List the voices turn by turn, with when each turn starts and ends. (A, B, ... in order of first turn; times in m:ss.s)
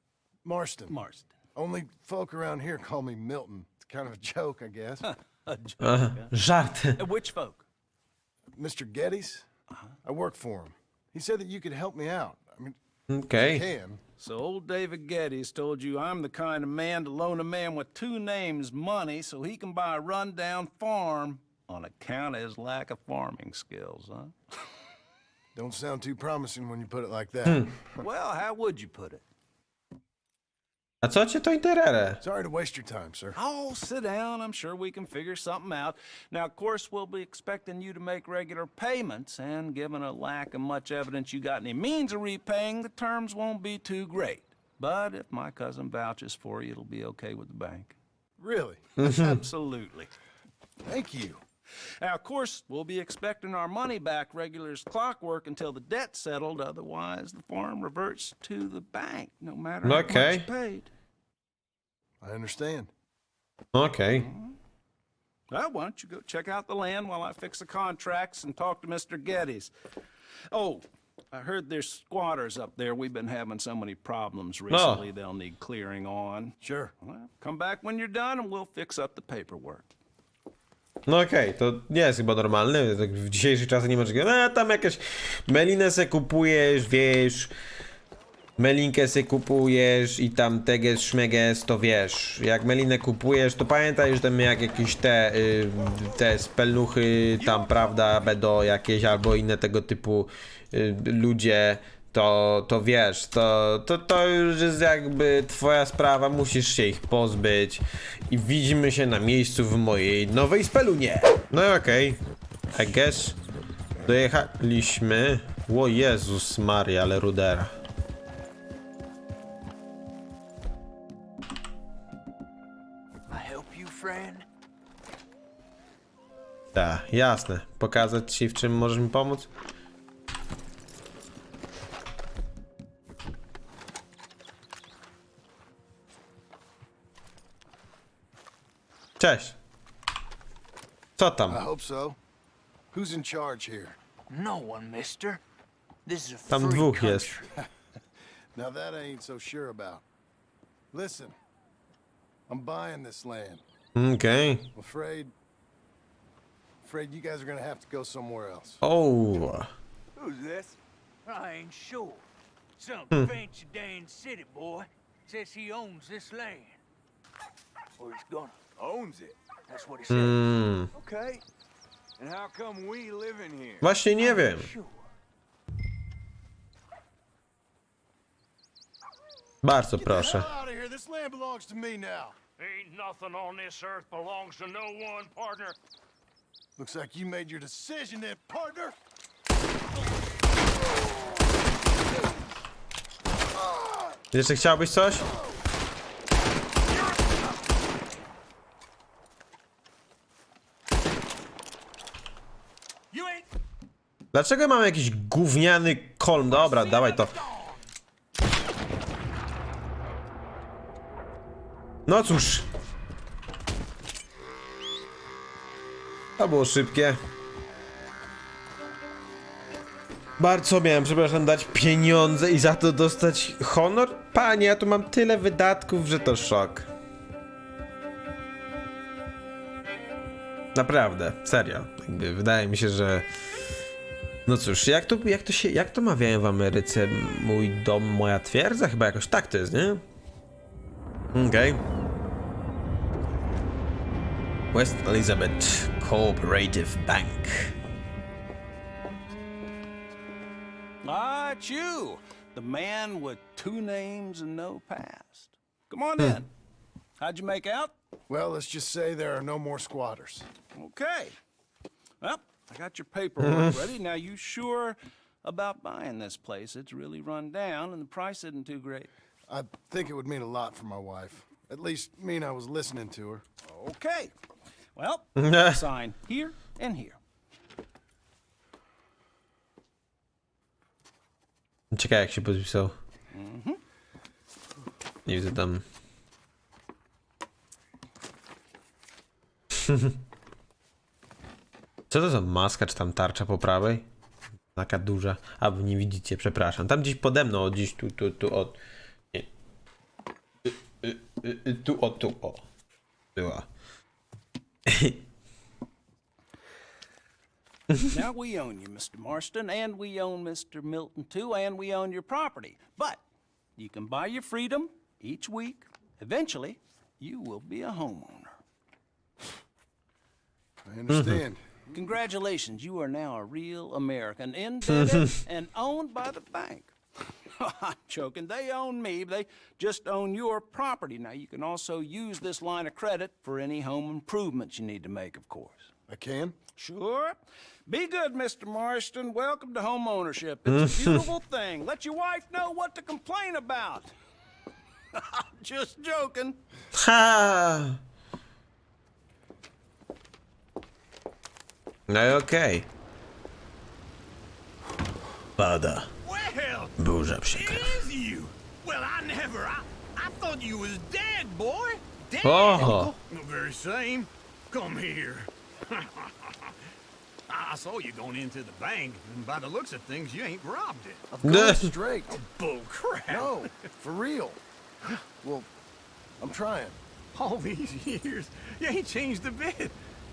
0:00.4-0:00.9 A
0:00.9-0:01.3 B
0:01.5-0:05.0 A
0:05.0-0:06.3 B
0:05.8-0:07.0 C
0:07.0-0:07.6 B
0:08.5-0:09.5 A
0:10.0-0:12.8 A
0:13.1-0:13.6 C
0:13.3-0:14.0 A
0:14.2-0:24.3 B
0:25.5-0:28.0 A
0:28.0-0:29.2 B
0:31.0-0:32.2 C
0:32.2-0:33.4 A
0:33.3-0:48.0 B
0:48.4-0:48.8 A
0:49.0-0:50.1 B
0:49.0-0:49.4 C
0:50.8-0:51.4 A
0:52.0-1:00.9 B
0:59.8-1:00.5 C
1:02.2-1:02.9 A
1:03.7-1:04.3 C
1:04.2-1:04.5 B
1:05.5-1:09.7 B
1:10.5-1:19.9 B
1:14.7-1:15.0 C
1:16.6-1:16.9 A
1:21.0-1:27.5 C
1:28.6-1:52.2 C
1:52.7-1:53.4 C
1:54.0-1:57.7 C
2:03.3-2:04.4 D
2:06.7-2:09.5 C
2:19.2-2:19.6 C
2:21.2-2:21.6 C
2:21.5-2:22.2 A
2:22.9-2:24.0 A
2:24.3-2:25.4 D
2:26.0-2:27.5 D
2:26.5-2:27.4 C
2:28.5-2:30.0 A
2:30.9-2:31.4 A
2:32.5-2:33.6 A
2:34.0-2:34.7 C
2:34.7-2:35.3 A
2:36.8-2:38.8 A
2:38.8-2:39.7 C
2:40.2-2:42.2 D
2:42.8-2:46.8 D
2:48.0-2:50.4 D
2:50.1-2:50.9 C
2:50.9-2:51.4 D
2:52.2-2:55.0 D
2:53.8-2:54.7 C
2:59.6-3:00.5 C
3:00.0-3:02.4 A
3:02.6-3:05.8 E
3:06.8-3:09.0 A
3:13.5-3:14.2 A
3:14.3-3:15.3 C
3:15.1-3:15.5 A
3:23.1-3:23.5 D
3:24.3-3:27.4 C
3:26.5-3:27.8 D
3:32.0-3:32.7 C
3:36.4-3:37.2 C
3:40.4-3:46.9 C
3:50.7-3:53.3 C
3:54.4-4:00.0 C
4:01.3-4:01.8 C
4:04.7-4:07.7 C
4:11.0-4:16.5 B
4:17.2-4:17.9 B
4:18.3-4:20.5 A
4:20.7-4:21.4 B
4:22.2-4:29.1 B
4:23.4-4:23.8 C
4:29.5-4:33.4 A
4:33.6-4:34.3 B
4:35.0-4:37.2 B
4:35.4-4:35.8 C
4:41.9-4:42.9 C
4:43.3-4:43.8 B
4:45.2-4:45.8 C
4:49.7-4:50.2 C
4:52.1-4:54.0 C
4:54.7-4:58.8 C
5:00.6-5:02.6 C
5:03.3-5:03.6 C
5:04.8-5:05.2 C
5:08.0-5:13.2 B
5:13.8-5:18.5 B
5:20.8-5:21.6 A
5:21.1-5:21.4 C
5:21.9-5:26.9 B
5:24.9-5:25.3 C
5:27.4-5:35.9 B
5:36.1-5:36.6 A
5:36.8-5:44.1 B
5:40.7-5:41.3 C
5:45.1-5:46.6 B
5:46.9-5:48.0 C
5:52.1-5:52.9 C
5:55.6-5:56.1 C
5:56.2-5:57.0 D
5:57.0-5:58.0 C
5:57.5-6:06.7 D
6:02.4-6:03.1 C
6:07.5-6:11.2 D
6:11.3-6:12.4 A
6:11.4-6:11.9 C
6:12.3-6:13.7 D
6:13.3-6:14.6 A
6:15.4-6:15.7 A
6:16.4-6:17.0 A
6:17.3-6:20.0 D